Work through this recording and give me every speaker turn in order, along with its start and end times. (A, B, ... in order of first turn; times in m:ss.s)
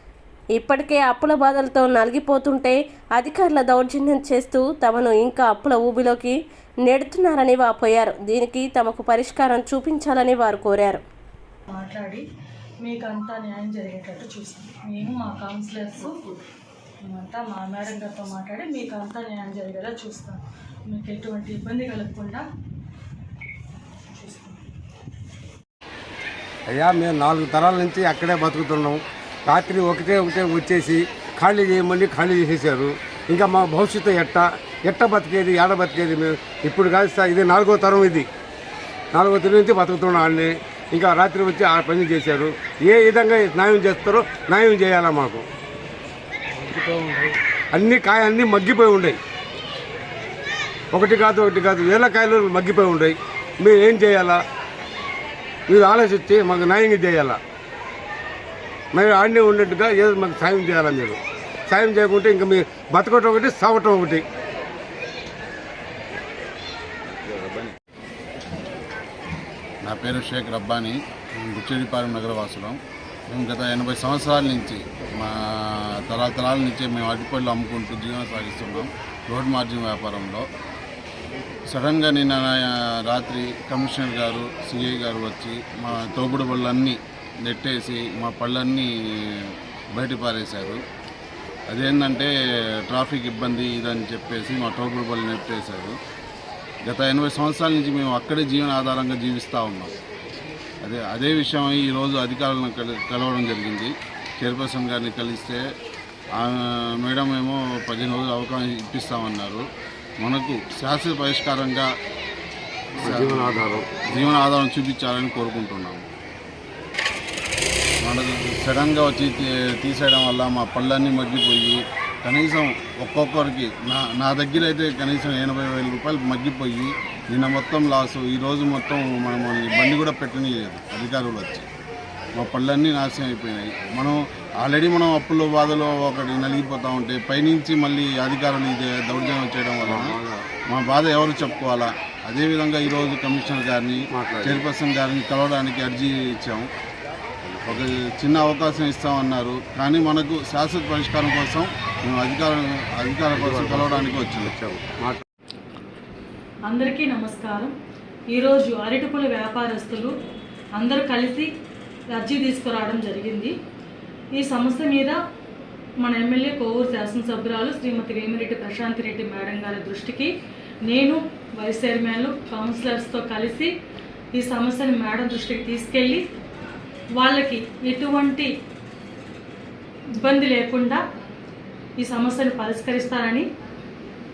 0:00.6-0:11.0 A
0:11.7-0:12.2 B
0:12.8-0:16.4 B
0:17.0-0:22.4 B
0:24.1-0:24.6 B
0:26.7-0:38.3 C
0:39.1-0:45.5 C
0:46.6-0:49.2 C
0:50.9-0:54.4 C
0:55.7-0:57.4 C
0:58.9-1:04.2 C
1:07.3-1:07.6 D
1:09.8-1:12.8 D
1:13.3-1:20.5 D
1:21.7-1:30.8 D
1:31.7-1:32.3 D
1:32.9-1:36.0 D
1:36.9-1:40.0 D
1:40.8-1:45.6 D
1:46.4-1:49.6 D
1:50.2-1:51.9 D
1:53.0-1:54.1 C
1:53.0-1:56.1 D
1:58.0-2:11.7 D
2:12.4-2:20.2 D
2:19.8-2:20.4 C
2:20.7-2:26.7 D
2:24.1-2:24.7 C
2:27.7-2:34.6 D
2:33.3-2:35.2 C
2:36.7-2:37.7 B
2:38.3-2:40.1 B
2:40.8-2:41.5 B
2:42.1-2:43.5 B
2:44.4-2:45.2 B
2:46.0-2:50.3 B
2:50.9-2:53.7 B
2:54.3-2:56.2 B
2:57.2-2:58.5 B
3:00.1-3:01.0 B
3:02.0-3:03.5 B